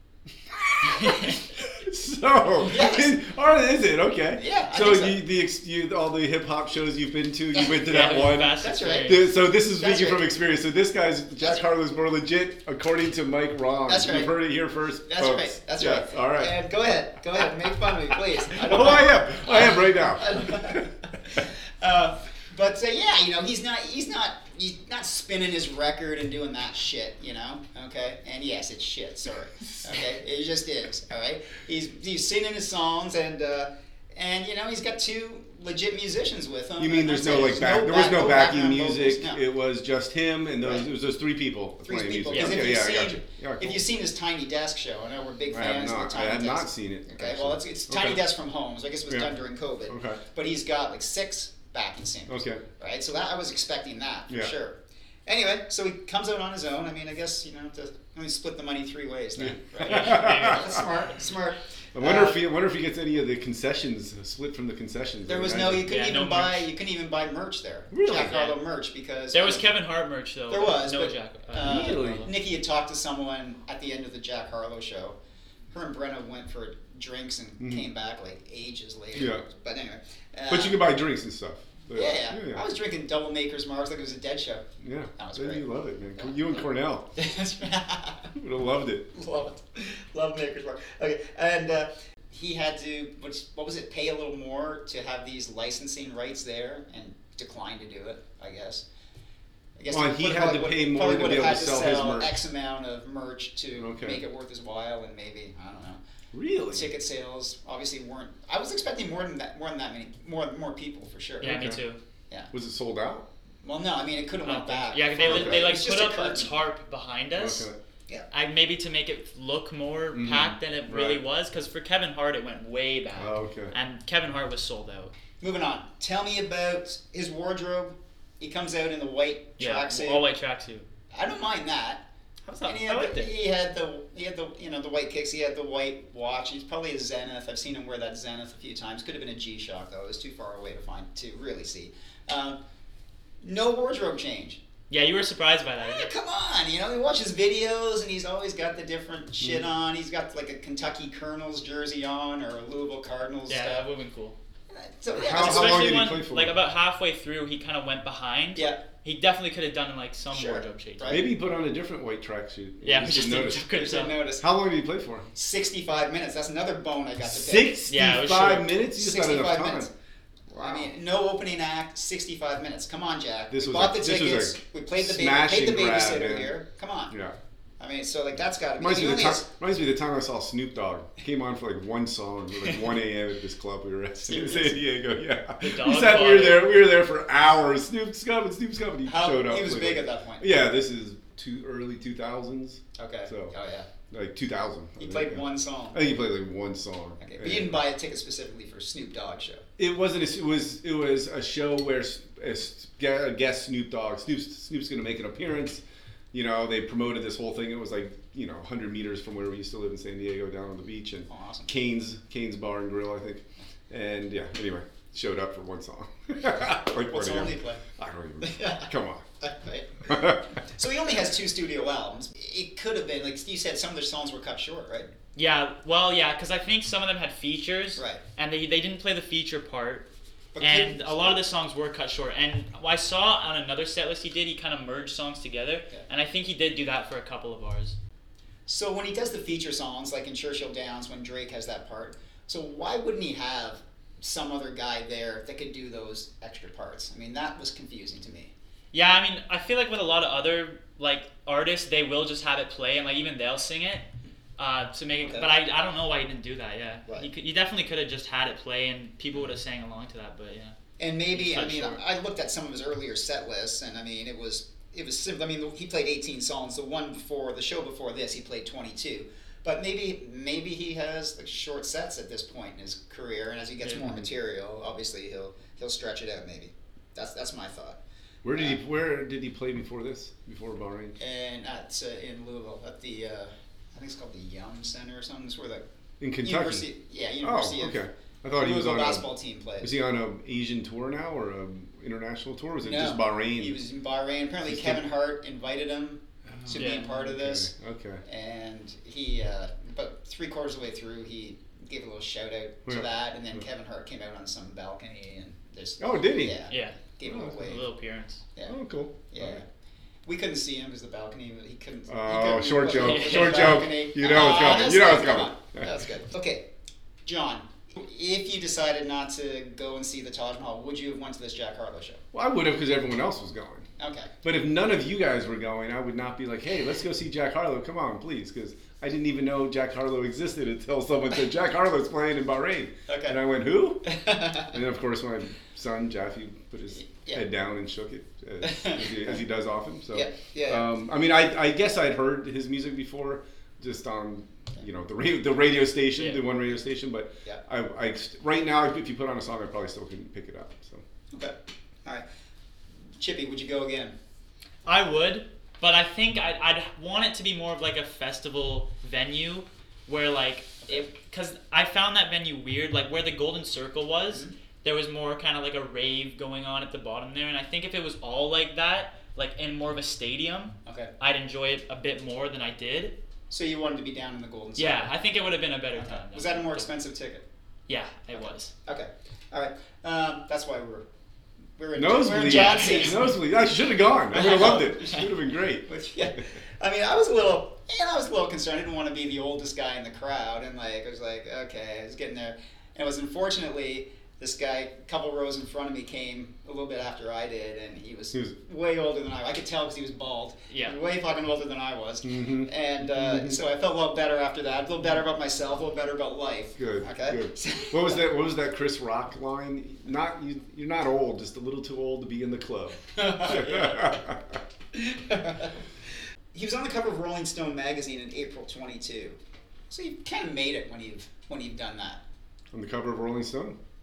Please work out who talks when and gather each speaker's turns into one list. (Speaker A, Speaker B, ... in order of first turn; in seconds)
Speaker A: 0.3-16.5, 17.9-20.9, 36.8-43.8, 45.5-48.2, 49.9-50.2, 52.3-52.6, 59.4-60.8, 62.0-65.9, 67.9-68.4, 71.6-72.3, 77.6-77.9, 79.2-79.4, 80.5-82.6, 84.8-87.1, 88.3-89.1, 99.9-102.4, 103.8-104.2, 106.3-106.9, 111.4-111.8, 112.5-113.2, 115.2-115.7, 117.3-117.8, 120.1-121.2, 123.2-123.8, 155.1-156.6, 161.1-163.7, 164.4-165.3, 167.2-169.9, 170.5-170.9, 173.5-176.5, 177.1-177.4, 178.8-193.5, 194.1-197.8, 199.8-219.2, 220.1-220.4, 278.4-281.2, 286.2-286.9, 287.4-289.3, 289.8-293.8, 294.7-295.0, 296.5-298.2, 302.9-303.6, 306.0-306.6, 307.2-307.7, 308.7-309.6, 312.1-315.9, 322.3-323.9, 324.4-334.0, 334.7-351.0, 382.0-385.9, 402.2-403.6, 406.8-414.6, 422.7-423.8
Speaker B: 1.0-1.3, 2.6-3.2, 4.4-5.2, 8.6-10.2, 13.9-14.4, 15.1-39.4, 40.6-40.9, 41.9-62.4, 65.3-69.7, 70.5-75.2, 75.7-80.8, 81.9-84.7, 85.2-86.6, 87.2-88.3, 89.1-98.8, 99.8-106.0, 106.7-111.5, 113.6-116.5, 125.4-130.2, 131.1-132.0, 132.7-142.6, 143.4-144.6, 145.8-153.8, 154.7-155.9, 160.3-161.2, 163.7-164.5, 165.3-167.8, 168.9-169.9, 170.5-177.1, 177.8-179.5, 184.2-184.8, 189.1-190.5, 193.0-193.9, 195.0-196.1, 197.2-199.6, 211.3-211.7, 217.1-217.8, 218.4-225.1, 228.0-228.2, 230.6-231.4, 238.7-248.5, 255.2-255.5, 261.0-278.0, 281.2-285.8, 286.4-288.0, 288.6-289.9, 292.8-297.7, 298.3-307.8, 309.3-309.7, 310.3-316.6, 317.2-322.2, 324.0-324.3, 333.1-333.4, 334.0-334.8, 337.0-337.4, 338.6-339.4, 340.1-340.9, 351.3-352.2, 353.2-354.1, 373.5-375.1, 376.0-377.4, 378.3-381.1, 381.8-383.3, 384.3-385.3, 385.9-408.2, 413.1-414.2, 414.9-415.7, 416.5-419.4, 419.9-422.2
Speaker C: 7.8-9.2, 42.3-42.6, 59.8-61.0, 65.8-66.7, 68.1-68.6, 69.3-72.3, 111.4-112.0, 114.4-117.7, 118.3-125.1, 129.6-130.9, 132.5-133.3, 144.9-146.1, 153.5-154.4, 155.2-161.2, 162.8-164.2, 167.9-168.7, 185.6-186.8, 225.4-230.1, 230.6-238.0, 248.9-254.1, 254.6-260.8, 261.3-262.0, 296.8-297.1, 306.7-308.5, 313.0-313.8, 354.9-373.1, 374.8-376.9, 377.9-378.7, 382.3-383.3, 384.4-384.9, 400.7-401.0